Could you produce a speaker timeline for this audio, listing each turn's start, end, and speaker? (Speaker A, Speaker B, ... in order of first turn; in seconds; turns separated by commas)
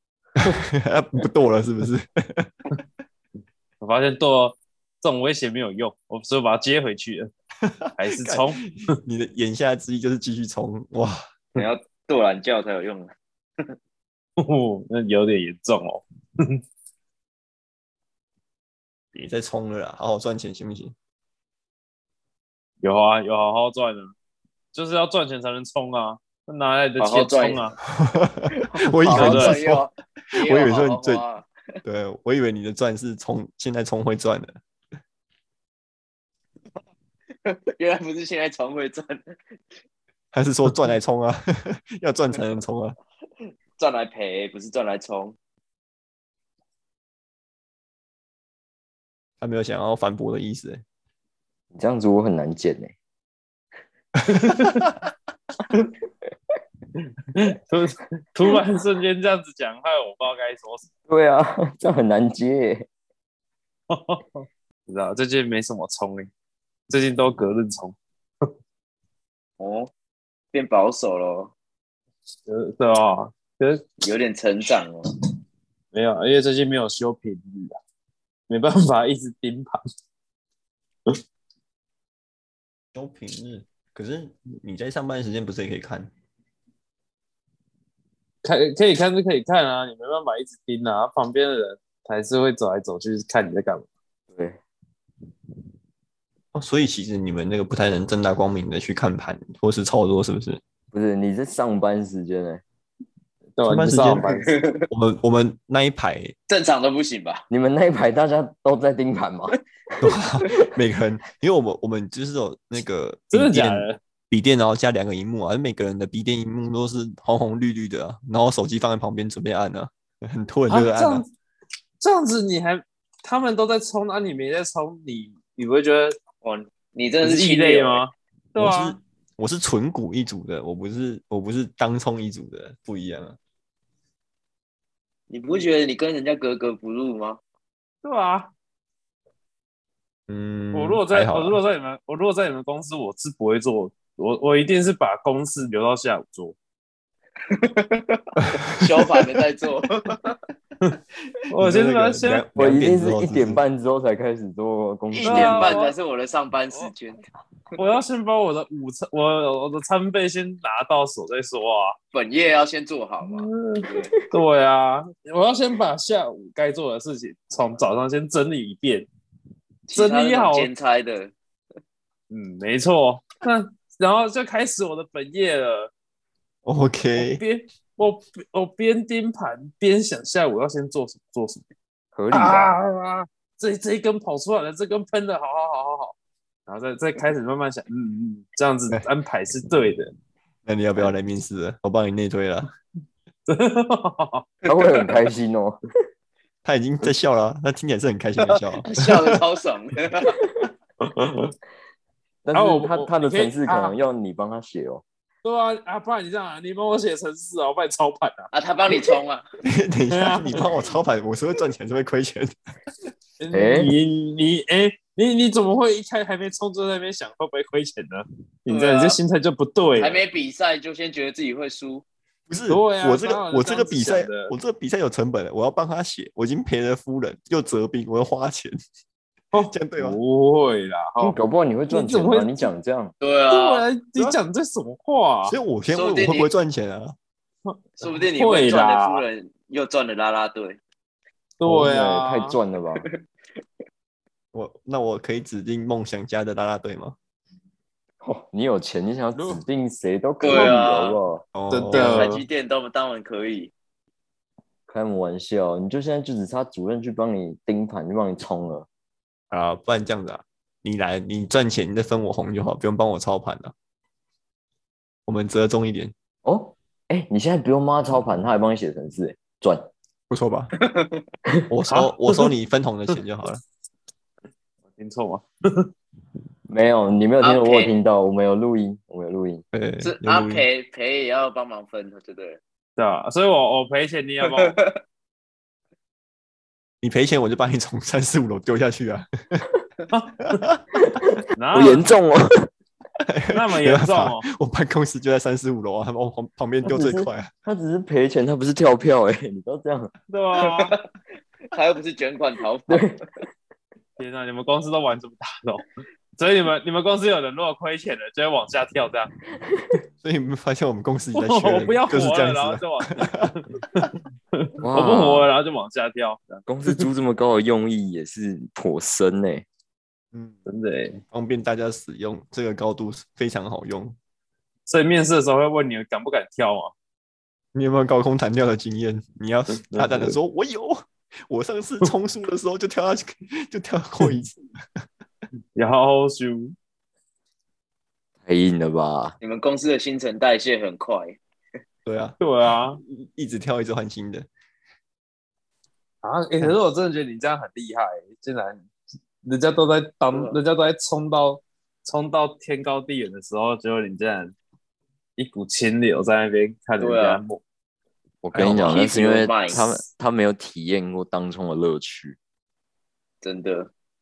Speaker A: 0.4-2.5, Speaker B: 3.8-7.3, Speaker A: 7.6-11.2, Speaker B: 8.0-8.6, Speaker C: 11.6-13.1, Speaker B: 14.4-16.6, Speaker A: 19.1-20.9, Speaker B: 22.8-24.1, Speaker B: 24.7-27.8, Speaker C: 27.0-27.7, Speaker A: 27.9-31.2, Speaker C: 28.6-31.5, Speaker B: 29.1-29.6, Speaker A: 31.8-34.6, Speaker C: 37.4-39.3, Speaker A: 40.3-43.0, Speaker C: 43.8-45.4, Speaker A: 49.4-50.8, Speaker D: 51.7-52.9, Speaker A: 54.1-54.9, Speaker B: 54.3-54.9, Speaker B: 57.3-60.9, Speaker D: 61.1-62.9, Speaker B: 63.9-66.3, Speaker B: 66.9-68.5, Speaker C: 69.6-69.9, Speaker C: 70.5-71.5, Speaker B: 72.5-73.9, Speaker C: 74.0-75.1, Speaker B: 75.9-77.8, Speaker B: 78.5-79.8, Speaker A: 82.9-86.1, Speaker B: 88.4-93.9, Speaker D: 94.3-94.6, Speaker A: 96.5-100.6, Speaker D: 100.9-102.6, Speaker B: 103.6-104.5, Speaker A: 103.6-104.3, Speaker C: 104.3-104.8, Speaker A: 104.9-106.3, Speaker C: 106.5-107.4, Speaker D: 107.5-110.5, Speaker A: 110.0-121.2, Speaker B: 113.3-114.0, Speaker B: 120.7-121.3, Speaker B: 122.0-126.2, Speaker C: 126.4-128.1, Speaker B: 127.2-129.0, Speaker A: 128.6-133.4, Speaker C: 135.3-137.4, Speaker B: 138.0-138.5, Speaker A: 140.3-141.6, Speaker B: 140.7-146.6, Speaker C: 147.5-150.3, Speaker A: 148.5-149.1, Speaker B: 151.5-152.4, Speaker A: 151.6-153.6, Speaker D: 152.6-155.7, Speaker C: 155.1-157.2, Speaker B: 155.2-155.9, Speaker B: 157.8-162.0, Speaker C: 162.1-164.1, Speaker B: 163.2-169.1, Speaker C: 169.9-171.3, Speaker B: 169.9-170.7, Speaker B: 172.3-175.9, Speaker A: 176.6-177.4, Speaker B: 177.2-181.6, Speaker D: 182.1-182.8, Speaker B: 182.3-186.1, Speaker B: 186.7-190.1, Speaker A: 190.7-192.7, Speaker B: 193.5-194.5, Speaker D: 194.7-195.8, Speaker A: 196.6-199.4, Speaker C: 198.8-200.4, Speaker B: 201.0-201.6, Speaker D: 202.4-205.0, Speaker B: 202.5-203.9, Speaker B: 205.4-209.1, Speaker C: 208.5-209.4, Speaker A: 209.6-212.5, Speaker B: 210.1-210.8, Speaker B: 213.4-220.2, Speaker D: 213.5-214.0, Speaker C: 218.7-219.2, Speaker C: 219.9-222.1, Speaker A: 222.5-228.8, Speaker B: 222.7-224.5, Speaker B: 229.5-232.7, Speaker A: 229.7-230.2, Speaker D: 231.2-233.1, Speaker C: 233.2-233.9, Speaker B: 233.5-235.6, Speaker A: 235.5-237.1, Speaker C: 235.9-236.5, Speaker B: 237.7-239.2, Speaker C: 238.0-240.8, Speaker B: 241.6-242.6, Speaker D: 241.6-243.1, Speaker A: 244.5-247.2, Speaker D: 248.2-251.4, Speaker B: 249.4-249.6, Speaker C: 250.4-251.2, Speaker A: 251.5-252.3, Speaker B: 251.7-252.4, Speaker C: 251.9-253.7, Speaker D: 254.9-258.9, Speaker A: 259.5-263.7, Speaker A: 265.3-266.1, Speaker D: 266.4-269.9, Speaker A: 270.3-270.7, Speaker C: 270.8-271.2, Speaker A: 271.7-273.6, Speaker B: 271.9-272.5, Speaker B: 274.9-275.9, Speaker D: 276.7-279.6, Speaker C: 277.4-277.9, Speaker A: 279.7-280.6, Speaker C: 280.0-282.6, Speaker B: 283.0-284.8, Speaker C: 284.5-284.9, Speaker A: 287.0-289.7, Speaker B: 290.1-290.6, Speaker A: 290.5-290.8, Speaker D: 290.9-292.7, Speaker B: 291.6-292.1, Speaker A: 293.2-297.5, Speaker B: 293.5-294.4, Speaker D: 296.9-300.1, Speaker B: 300.3-300.9, Speaker C: 300.6-301.0, Speaker C: 301.7-303.1, Speaker D: 302.9-303.2, Speaker B: 304.2-305.9, Speaker B: 306.4-309.3, Speaker A: 310.2-314.1, Speaker B: 311.4-317.1, Speaker D: 314.8-315.5, Speaker D: 316.6-319.6, Speaker A: 320.3-320.6, Speaker B: 320.6-321.2, Speaker A: 321.3-324.2, Speaker B: 324.9-326.9, Speaker A: 327.7-334.6, Speaker B: 329.7-330.4, Speaker B: 335.8-336.8, Speaker D: 338.4-339.4, Speaker C: 339.4-341.4, Speaker A: 342.1-342.4, Speaker B: 342.4-343.0, Speaker A: 343.0-344.5, Speaker B: 346.2-348.9, Speaker B: 349.4-354.6, Speaker C: 350.3-350.6, Speaker B: 355.4-357.6, Speaker C: 357.0-357.4, Speaker D: 358.4-362.4, Speaker A: 358.5-359.0, Speaker C: 358.9-360.0, Speaker C: 363.4-363.9